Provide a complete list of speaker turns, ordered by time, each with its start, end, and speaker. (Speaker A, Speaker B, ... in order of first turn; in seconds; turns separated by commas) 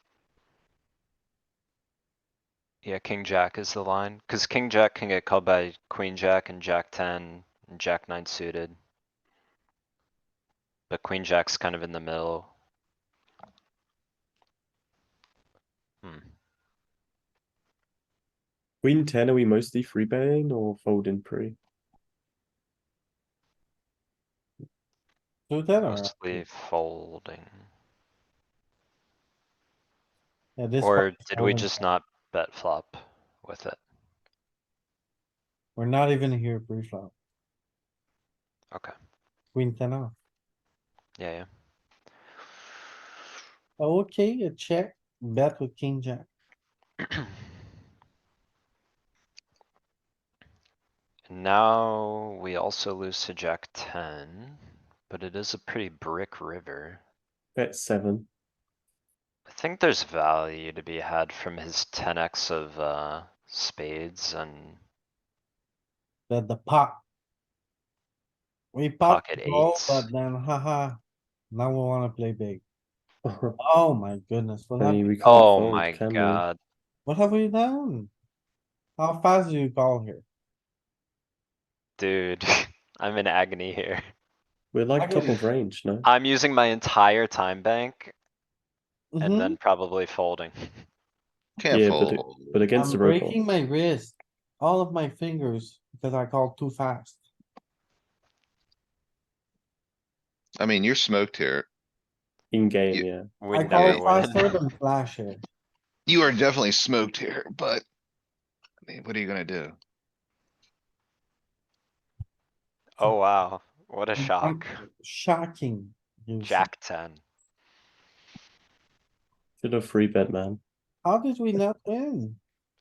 Speaker A: 2.8-8.7, Speaker A: 10.9-12.5, Speaker A: 16.0-16.3, Speaker B: 18.8-21.6, Speaker C: 25.5-26.4, Speaker A: 25.9-27.5, Speaker C: 30.6-31.7, Speaker A: 30.8-33.8, Speaker C: 35.8-37.1, Speaker C: 39.5-40.1, Speaker A: 41.2-41.5, Speaker C: 43.8-46.3, Speaker A: 51.3-57.0, Speaker B: 57.5-58.3, Speaker A: 59.5-64.8, Speaker C: 66.3-67.0, Speaker C: 68.7-71.0, Speaker A: 69.1-70.1, Speaker C: 71.5-72.6, Speaker B: 73.2-73.6, Speaker C: 73.6-75.1, Speaker B: 74.8-76.4, Speaker A: 75.2-76.6, Speaker C: 77.0-78.1, Speaker C: 79.0-80.2, Speaker A: 82.0-84.0, Speaker B: 84.7-86.1, Speaker C: 85.0-85.5, Speaker A: 86.0-88.1, Speaker C: 89.1-89.6, Speaker A: 89.2-90.5, Speaker D: 91.6-92.6, Speaker B: 91.7-93.4, Speaker C: 92.7-97.2, Speaker D: 100.6-101.7, Speaker B: 102.5-103.2, Speaker A: 103.4-104.6, Speaker C: 103.5-105.4, Speaker D: 103.7-104.3, Speaker D: 106.1-107.8, Speaker D: 108.8-109.8, Speaker A: 113.0-114.8, Speaker C: 114.2-116.7, Speaker A: 116.4-117.2, Speaker B: 119.6-120.6, Speaker C: 121.0-122.4